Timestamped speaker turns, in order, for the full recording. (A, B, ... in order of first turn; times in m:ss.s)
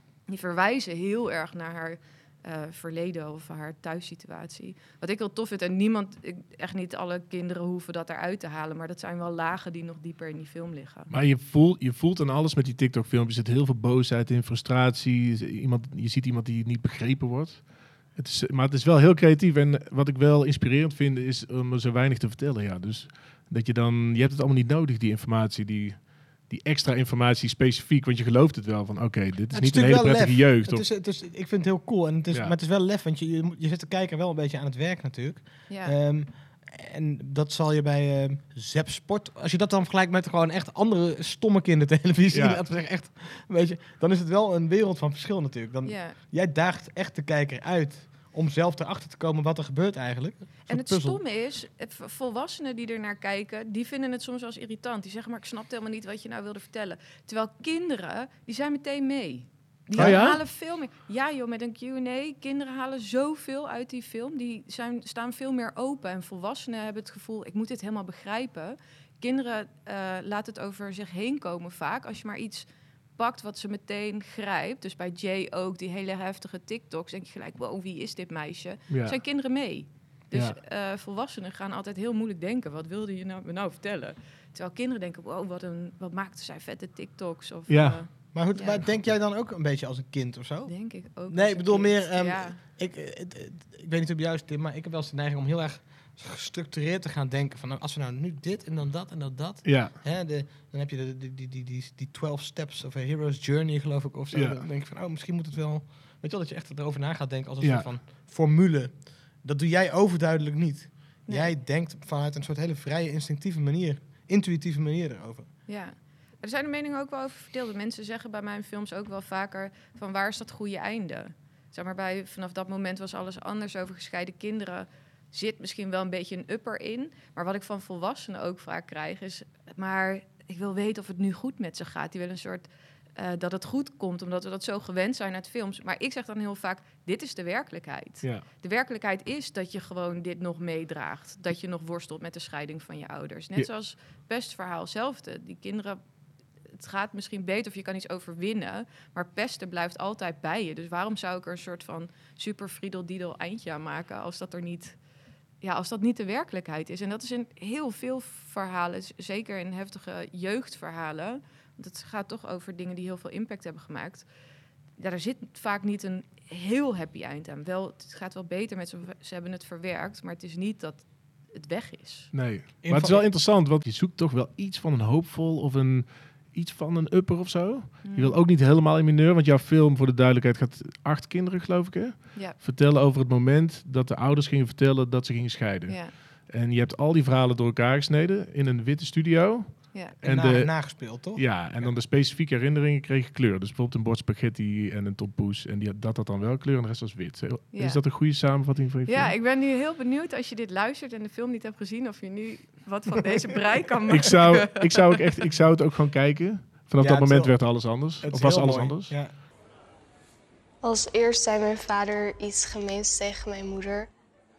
0:00.3-0:11.1 A
0:11.1-0:30.9 B
0:29.5-0:51.2 C
0:35.7-0:36.0 A
0:42.3-0:42.6 B
0:45.8-0:46.2 A
0:50.7-1:28.8 A
1:00.0-1:00.4 B
1:00.0-1:00.2 C
1:18.9-1:19.2 B
1:20.3-1:20.6 B
1:27.7-1:28.0 B
1:28.3-1:30.7 C
1:30.7-1:32.6 A
1:31.3-1:55.5 C
1:39.6-1:40.0 B
1:44.3-1:44.6 B
1:47.6-1:47.9 B
1:51.3-1:51.6 A
1:55.7-2:26.0 A
2:26.7-2:35.0 A
2:35.6-2:44.3 A
2:45.0-2:52.3 A
2:52.3-3:19.3 B
2:52.8-2:53.3 C
2:58.0-2:58.4 A
3:05.9-3:06.2 A
3:10.2-3:12.0 C
3:17.7-3:18.0 A
3:19.1-3:25.2 A
3:24.1-3:29.2 B
3:27.0-3:29.3 C
3:30.8-3:34.1 D